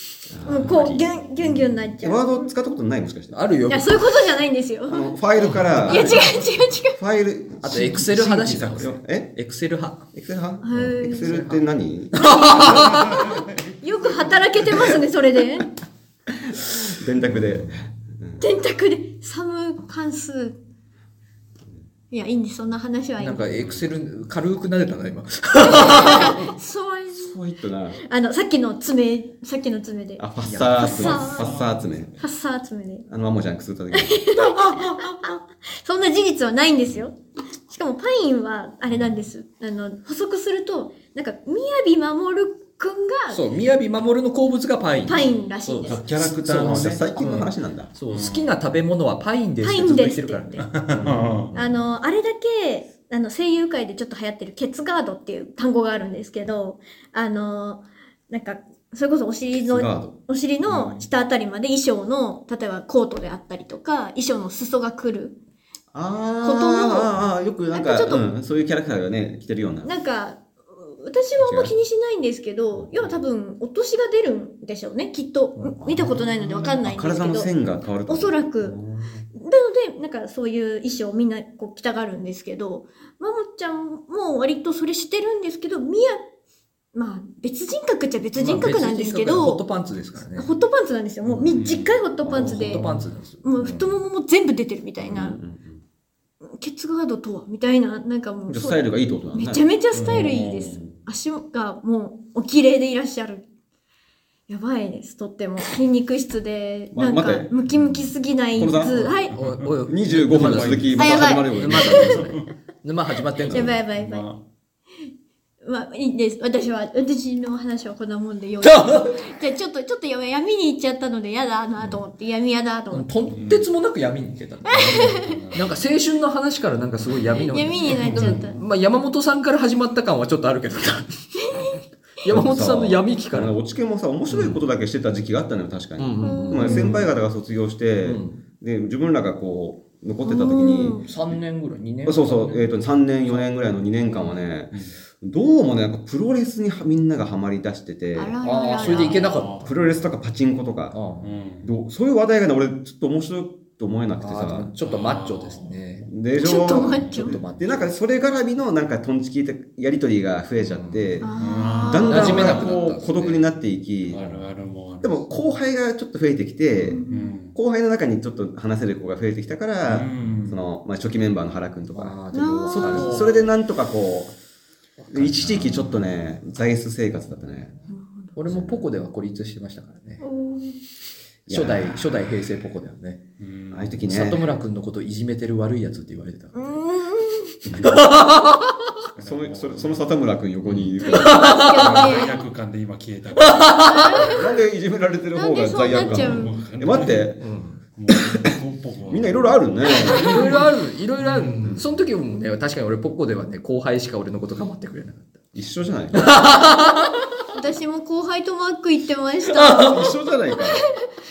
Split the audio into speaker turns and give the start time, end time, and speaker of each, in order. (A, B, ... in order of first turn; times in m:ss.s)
0:00.3-0:03.4 A
0:00.4-0:02.5 B
0:03.3-0:04.0 C
0:03.7-0:05.1 B
0:04.9-0:06.4 A
0:05.4-0:06.4 C
0:05.8-0:07.0 B
0:06.9-0:07.9 A
0:07.6-0:10.1 C
0:07.7-0:08.9 D
0:08.8-0:09.3 A
0:10.1-0:12.8 A
0:10.6-0:11.4 B
0:10.8-0:11.6 C
0:12.1-0:13.1 C
0:12.2-0:15.7 B
0:12.6-0:14.3 D
0:16.9-0:18.4 A
0:17.3-0:17.8 C
0:18.4-0:20.6 B
0:22.1-0:23.4 B
0:23.2-0:26.4 C
0:25.6-0:27.4 B
0:26.1-0:26.5 A
0:27.1-0:28.0 A
0:28.0-0:30.2 B
0:30.2-0:32.1 A
0:30.4-0:31.2 C
0:30.8-0:31.6 B
0:30.9-0:32.3 D
0:32.2-0:33.0 B
0:33.1-0:34.2 A
0:33.9-0:37.2 B
0:34.4-0:35.1 C
0:37.7-0:43.4 B
0:43.3-0:51.8 C
0:45.1-0:46.1 B
0:45.8-0:47.1 D
0:46.4-0:47.9 A
0:48.1-0:48.5 D
0:49.6-0:50.6 B
0:50.6-0:51.5 D
0:50.9-0:51.4 A
0:51.5-1:05.4 B
0:59.6-1:00.1 A
1:05.9-1:09.9 A
1:06.4-1:07.1 B
1:07.7-1:08.2 B
1:09.8-1:17.5 B
1:11.4-1:11.8 A
1:12.8-1:13.2 A
1:15.7-1:19.2 A
1:16.4-1:16.8 D
1:18.1-1:18.8 B
1:19.4-1:26.2 B
1:26.9-1:29.6 B
1:28.4-1:30.5 C
1:30.4-1:32.9 B
1:31.3-1:31.6 A
1:31.5-1:32.0 D
1:32.2-1:34.0 C
1:32.3-1:32.9 A
1:33.4-1:35.4 B
1:35.0-1:35.8 A
1:36.6-1:43.4 B
1:38.5-1:39.6 A
1:39.9-1:40.8 D
1:40.0-1:40.3 C
1:44.5-1:49.4 B
1:46.9-1:47.5 A
1:48.6-1:49.1 A
1:49.2-1:53.8 C
1:49.3-1:51.4 D
1:49.9-1:52.4 A
1:51.0-1:52.3 B
1:53.5-1:54.3 B
1:53.6-1:54.4 D
1:55.6-2:03.1 B
1:58.6-1:59.2 C
2:02.9-2:11.7 C
2:03.3-2:03.7 D
2:04.9-2:05.4 B
2:05.0-2:05.7 D
2:07.3-2:08.6 B
2:07.9-2:08.6 D
2:11.5-2:11.8 B
2:12.2-2:13.6 C
2:12.3-2:21.0 A
2:14.3-2:14.6 C
2:16.0-2:17.1 C
2:16.2-2:16.9 B
2:16.6-2:16.9 D
2:18.0-2:18.4 C
2:20.2-2:21.0 B
2:20.8-2:23.5 C
2:22.0-2:31.0 A
2:24.0-2:24.4 C
2:24.7-2:25.0 D
2:28.2-2:29.4 B
2:28.4-2:29.7 C
2:29.3-2:30.1 D
2:30.9-2:31.4 C
2:31.2-2:31.7 D
2:31.6-2:34.7 A
2:34.2-2:36.1 C
2:34.8-2:36.1 D
2:36.1-2:44.2 A
2:36.4-2:37.4 B
2:36.8-2:37.3 D
2:37.0-2:37.9 C
2:40.6-2:41.3 C
2:41.2-2:42.6 B
2:41.4-2:42.8 D
2:42.1-2:43.5 C
2:44.1-2:45.3 D
2:44.2-2:44.5 C
2:45.0-2:54.4 A
2:46.8-2:47.6 D
2:46.9-2:47.4 B
2:49.8-2:50.6 D
2:51.9-2:53.4 C
2:52.3-2:53.2 B
2:53.0-2:53.3 D
2:55.0-2:56.0 C
2:55.1-2:57.7 A
2:57.9-2:58.3 B
2:58.4-3:00.2 C
2:58.5-2:58.8 A
3:00.2-3:00.8 B
3:01.5-3:02.2 A
3:01.5-3:03.2 C
3:03.4-3:04.1 D
3:03.7-3:04.4 A
3:04.0-3:06.8 C
3:06.6-3:07.6 B
3:07.7-3:08.9 C
3:09.2-3:10.1 D
3:09.2-3:11.5 A
3:10.7-3:12.2 C
3:11.0-3:12.5 B
3:11.7-3:13.9 D
3:13.4-3:14.3 C
3:13.8-3:14.6 B
3:14.2-3:17.4 A
3:15.3-3:16.6 B
3:15.9-3:17.4 D
3:17.4-3:17.8 C
3:17.9-3:21.8 D
3:19.1-3:20.4 A
3:20.1-3:25.4 C
3:25.6-3:26.4 A
3:26.1-3:27.3 C
3:27.5-3:30.6 B
3:29.5-3:30.1 C
3:29.9-3:30.8 A